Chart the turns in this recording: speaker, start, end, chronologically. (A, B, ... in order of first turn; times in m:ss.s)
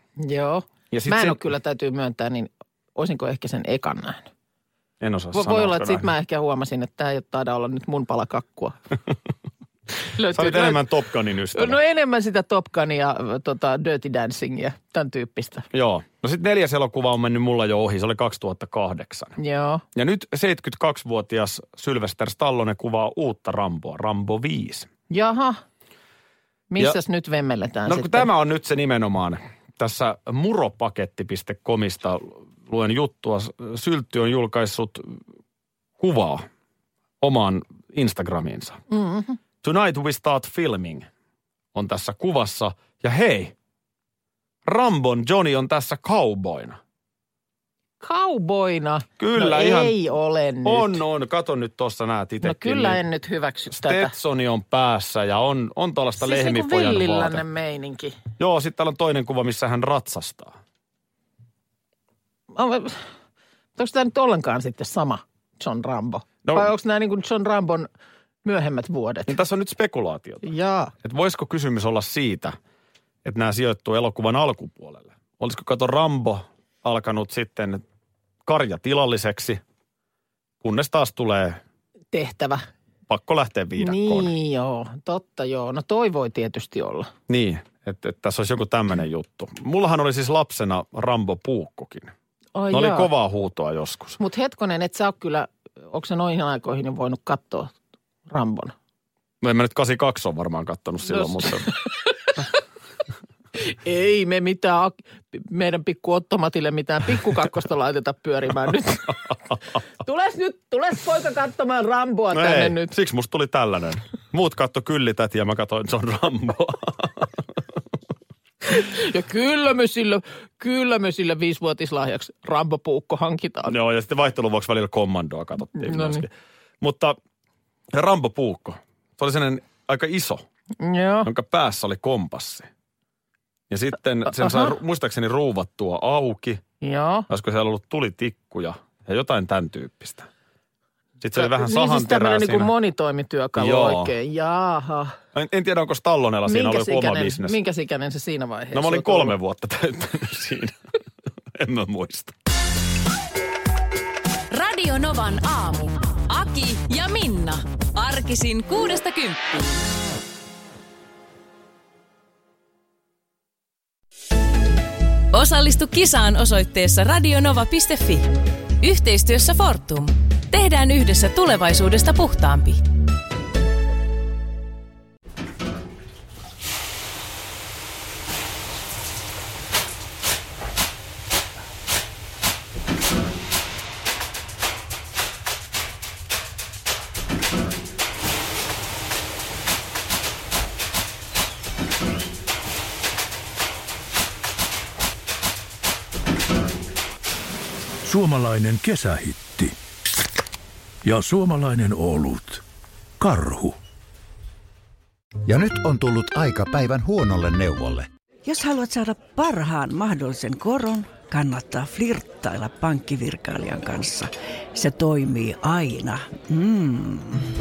0:00.2-0:04.3 A
0:00.9-0:01.4 B
0:05.0-0:06.1 B
0:05.3-0:08.8 A
0:10.1-0:10.8 A
0:10.2-0:11.8 B
0:11.5-0:15.7 A
0:15.7-0:19.4 B
0:19.4-0:19.8 A
0:19.9-0:24.9 B
0:25.1-0:25.6 A
0:26.7-0:28.3 A
0:27.9-0:35.2 B
0:36.0-0:36.4 B
0:37.2-0:38.8 B
0:38.9-0:39.4 A
0:39.6-0:41.1 B
0:41.7-0:43.5 B
0:44.6-0:46.8 B
0:48.0-0:51.0 A
0:49.2-0:50.0 B
0:50.6-0:53.0 B
0:52.4-0:54.1 A
0:53.7-0:57.4 B
0:56.2-0:58.1 A
0:58.4-1:00.5 B
1:02.5-1:03.0 A
1:03.8-1:07.9 A
1:06.4-1:06.7 B
1:08.4-1:09.3 A
1:09.3-1:10.5 B
1:10.4-1:10.9 A
1:11.0-1:12.6 B
1:13.2-1:17.8 B
1:18.4-1:19.6 B
1:20.6-1:21.6 B
1:22.1-1:22.6 A
1:23.1-1:24.3 B
1:23.8-1:27.1 A
1:27.3-1:32.1 B
1:32.5-1:33.1 A
1:32.7-1:34.2 B
1:34.2-1:37.7 A
1:38.3-1:38.7 A
1:39.4-1:41.7 B
1:41.0-1:41.7 A
1:43.6-1:49.3 A
1:50.0-1:52.9 A
1:52.3-1:57.4 B
1:58.6-2:03.7 A
2:03.7-2:07.2 B
2:05.8-2:06.2 A
2:07.9-2:10.4 B
2:10.8-2:11.3 A
2:11.2-2:12.7 B
2:13.7-2:16.6 B
2:14.2-2:14.7 A
2:16.8-2:17.3 A
2:17.3-2:20.3 B
2:21.2-2:22.7 B
2:21.4-2:25.2 A
2:23.6-2:24.1 B
2:25.3-2:27.6 B
2:26.4-2:29.4 A
2:28.7-2:30.8 B
2:31.5-2:32.4 B
2:34.5-2:39.8 C
2:45.3-2:52.8 C
3:18.0-3:19.8 D
3:21.0-3:22.6 D
3:23.2-3:23.8 D
3:25.4-3:28.1 E
3:28.4-3:37.4 F